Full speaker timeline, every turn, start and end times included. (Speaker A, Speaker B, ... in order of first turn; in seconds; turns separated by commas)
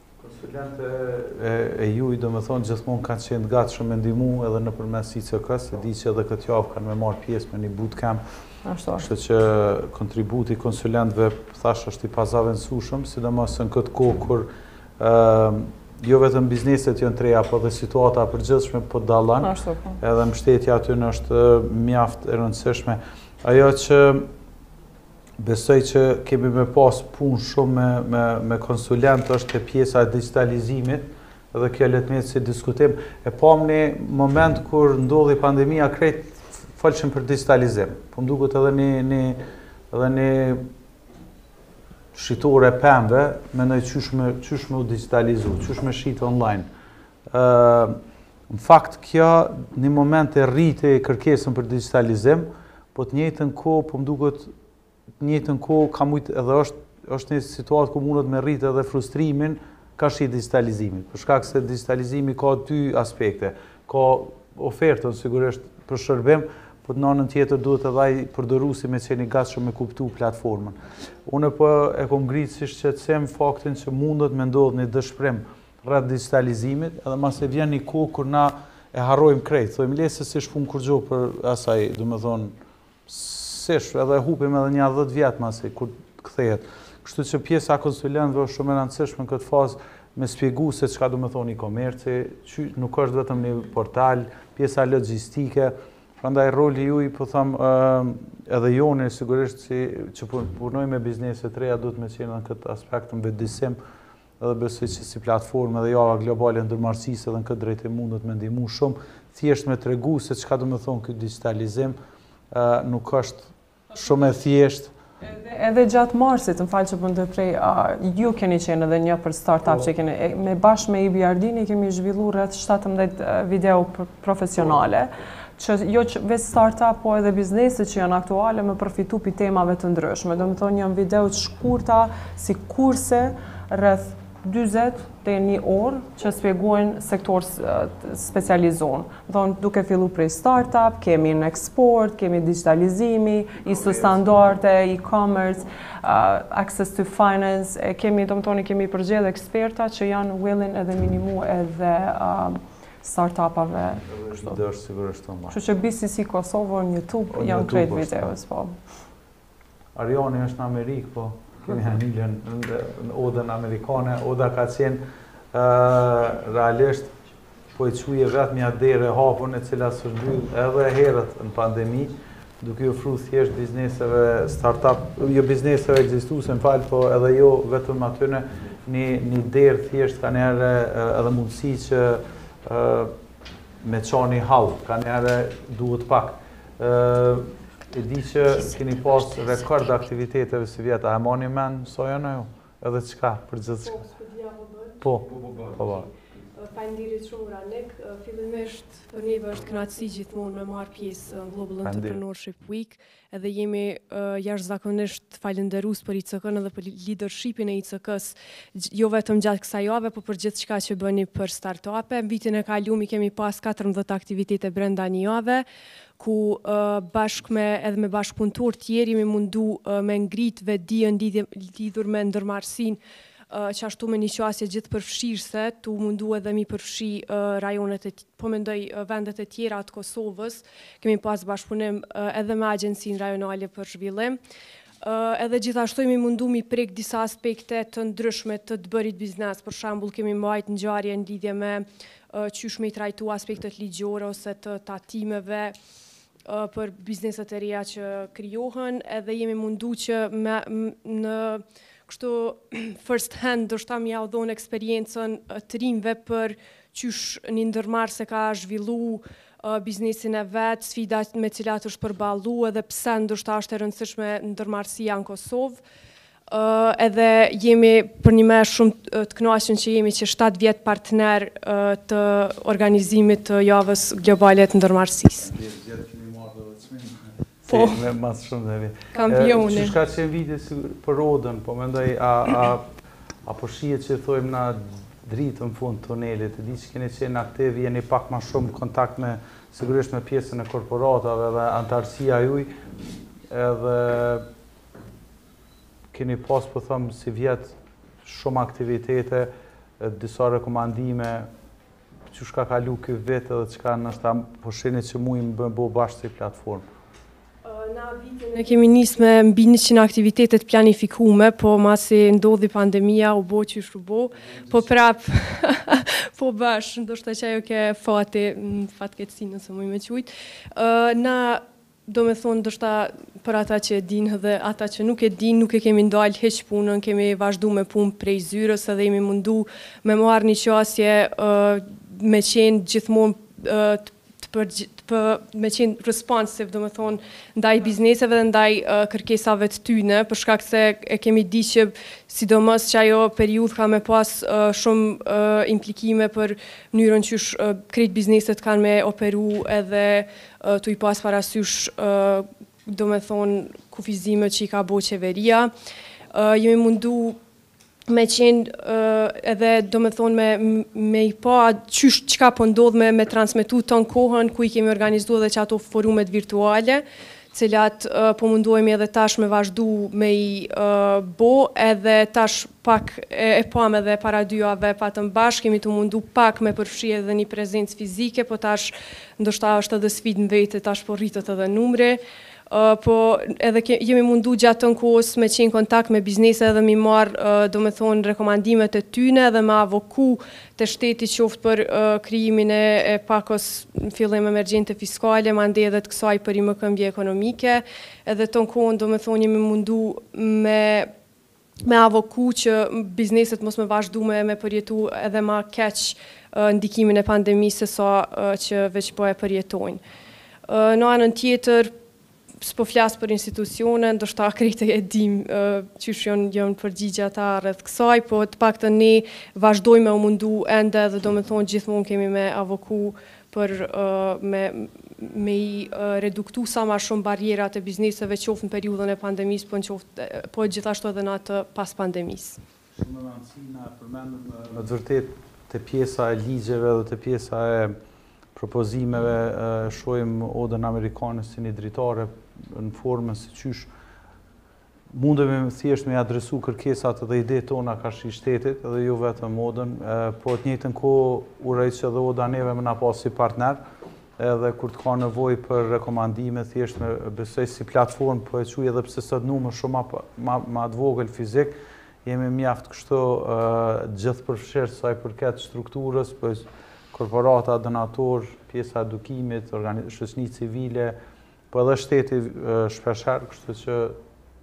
Speaker A: 0.2-8.2, Speaker B: 8.7-9.1, Speaker A: 9.0-24.3, Speaker B: 19.4-20.0, Speaker A: 25.4-40.7, Speaker A: 42.1-46.7, Speaker A: 47.3-48.0, Speaker A: 48.5-54.5, Speaker A: 55.2-82.5, Speaker A: 83.1-103.8, Speaker A: 104.4-112.0, Speaker A: 112.5-114.9, Speaker B: 115.2-154.6, Speaker A: 143.8-144.2, Speaker A: 154.1-155.6, Speaker B: 155.5-158.8, Speaker A: 157.3-158.4, Speaker A: 159.9-167.1, Speaker A: 167.7-183.2, Speaker A: 183.8-194.1, Speaker C: 193.9-194.9, Speaker A: 195.0-196.1, Speaker C: 196.6-215.7, Speaker A: 201.8-202.2, Speaker C: 216.2-223.0, Speaker C: 223.5-234.4, Speaker C: 235.0-245.8, Speaker C: 246.4-265.8, Speaker C: 266.5-275.5, Speaker A: 275.4-282.9, Speaker C: 277.7-278.0, Speaker C: 279.1-279.9, Speaker A: 283.4-292.7, Speaker A: 293.5-294.5, Speaker A: 296.1-301.5, Speaker A: 302.3-306.9, Speaker C: 307.7-355.7, Speaker C: 356.3-357.4, Speaker C: 358.1-401.1, Speaker C: 401.8-410.0, Speaker C: 410.7-411.9, Speaker C: 412.6-432.6, Speaker A: 433.0-438.0, Speaker A: 438.6-443.9, Speaker A: 445.1-453.8, Speaker A: 454.4-471.2, Speaker A: 471.7-474.2